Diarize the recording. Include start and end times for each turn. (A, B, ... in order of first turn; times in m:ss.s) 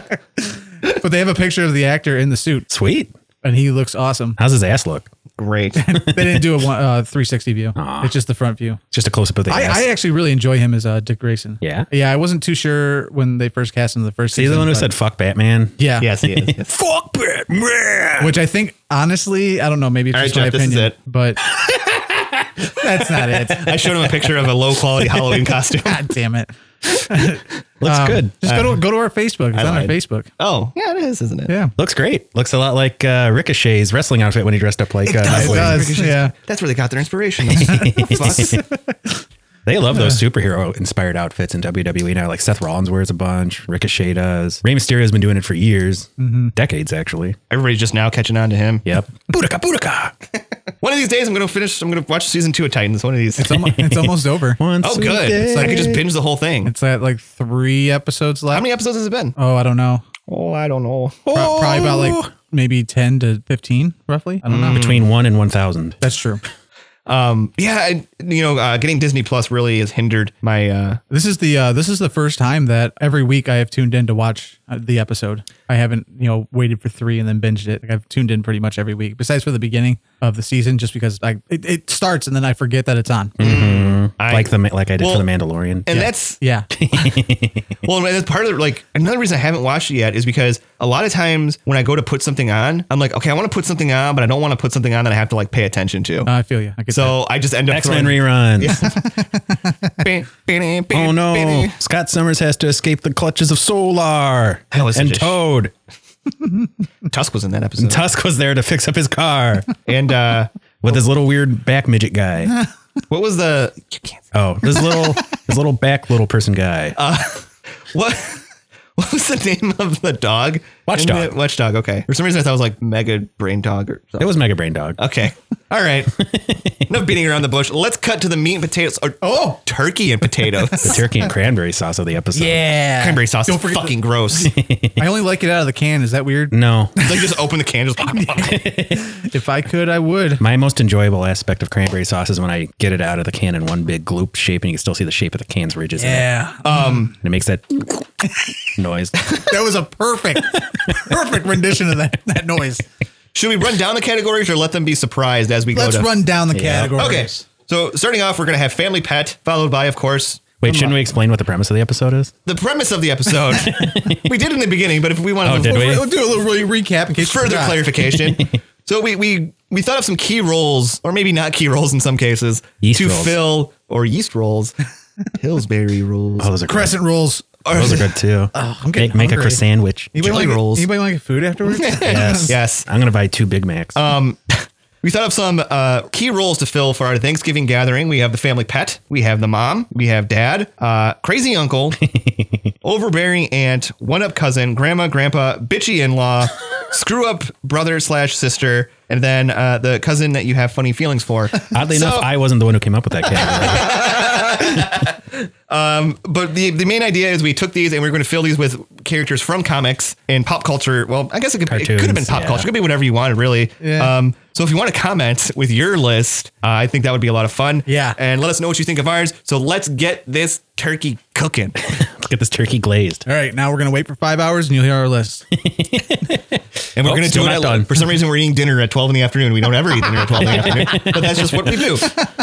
0:00.9-0:02.7 A
0:02.7-0:03.1 B
0:03.4-0:04.4 A
0:04.4-0:05.1 B
0:05.4-0:05.9 C
0:05.8-0:08.8 A
0:06.1-0:06.4 B
0:07.8-0:08.2 B
0:08.9-0:09.9 B
0:09.5-0:14.9 A
0:11.6-0:11.9 B
0:14.3-0:18.4 B
0:15.8-0:16.1 A
0:16.0-0:16.7 C
0:18.2-0:21.4 A
0:20.1-0:21.0 C
0:21.5-0:22.8 B
0:22.7-0:24.1 A
0:23.4-0:26.1 C
0:25.8-0:30.3 A
0:27.8-0:28.3 B
0:28.4-0:28.8 C
0:29.5-0:31.5 C
0:31.5-0:31.7 A
0:31.8-0:35.9 B
0:35.1-0:38.6 C
0:35.2-0:36.3 A
0:37.6-0:38.6 B
0:37.6-0:39.0 A
0:39.7-0:47.4 B
0:46.2-0:46.5 A
0:47.5-0:48.8 C
0:48.8-0:50.2 B
0:50.8-0:53.6 C
0:53.4-0:54.6 A
0:53.6-0:56.0 B
0:54.8-0:56.7 C
0:56.6-0:58.7 A
0:58.5-0:59.4 C
0:59.4-1:00.0 A
1:00.3-1:01.3 C
1:01.3-1:02.3 B
1:01.3-1:04.8 A
1:04.5-1:05.1 C
1:04.5-1:06.0 B
1:06.0-1:06.4 A
1:07.1-1:11.0 C
1:11.1-1:23.4 A
1:23.4-1:26.1 B
1:23.4-1:25.3 C
1:25.9-1:26.4 C
1:26.0-1:26.7 A
1:26.7-1:27.7 B
1:26.9-1:36.3 C
1:36.2-1:37.2 A
1:36.9-1:39.0 C
1:37.7-1:38.9 B
1:40.0-1:41.8 C
1:40.9-1:45.7 B
1:44.7-1:45.4 C
1:47.1-1:48.0 C
1:47.8-1:49.7 B
1:49.9-1:50.5 C
1:50.8-1:52.6 B
1:53.1-1:54.3 C
1:54.3-1:57.0 B
1:57.0-1:58.4 C
1:59.0-2:04.3 C
2:00.9-2:01.4 B
2:04.2-2:05.0 B
2:05.0-2:06.2 C
2:06.2-2:06.9 B
2:06.9-2:11.0 C
2:09.2-2:09.6 A
2:10.8-2:12.7 B
2:12.3-2:14.0 A
2:13.0-2:14.5 C
2:14.4-2:15.0 B
2:15.0-2:17.3 A
2:16.5-2:16.9 B
2:17.0-2:18.6 C
2:18.2-2:20.4 A
2:18.5-2:19.1 B
2:20.4-2:26.3 B
2:26.0-2:27.1 A
2:26.6-2:27.1 C
2:27.1-2:28.1 B
2:28.8-2:29.2 B
2:29.4-2:32.8 A
2:33.3-2:36.1 C
2:35.7-2:37.4 A
2:36.5-2:37.0 B
2:37.0-2:40.5 C
2:40.6-2:42.3 B
2:40.7-2:41.0 A
2:42.5-2:46.0 C
2:43.5-2:44.2 B
2:45.4-2:46.1 B
2:45.6-2:47.9 A
2:47.2-2:54.8 C
2:52.8-2:53.4 B
2:55.4-2:56.5 C
2:56.4-2:57.0 B
2:56.7-2:57.9 A
2:57.6-2:58.1 C
2:57.7-3:00.4 B
2:58.5-2:59.6 A
3:00.1-3:02.5 A
3:00.2-3:00.9 C
3:01.8-3:02.9 C
3:01.9-3:04.0 B
3:04.0-3:12.0 C
3:12.1-3:12.6 B
3:12.8-3:22.3 C
3:21.7-3:24.8 B
3:23.5-3:41.8 C
3:31.7-3:32.7 B
3:33.8-3:34.1 A
3:37.9-3:38.2 A
3:41.9-3:43.2 B
3:43.3-3:45.5 A
3:45.6-3:48.0 B
3:47.0-3:52.2 C
3:50.2-3:52.0 B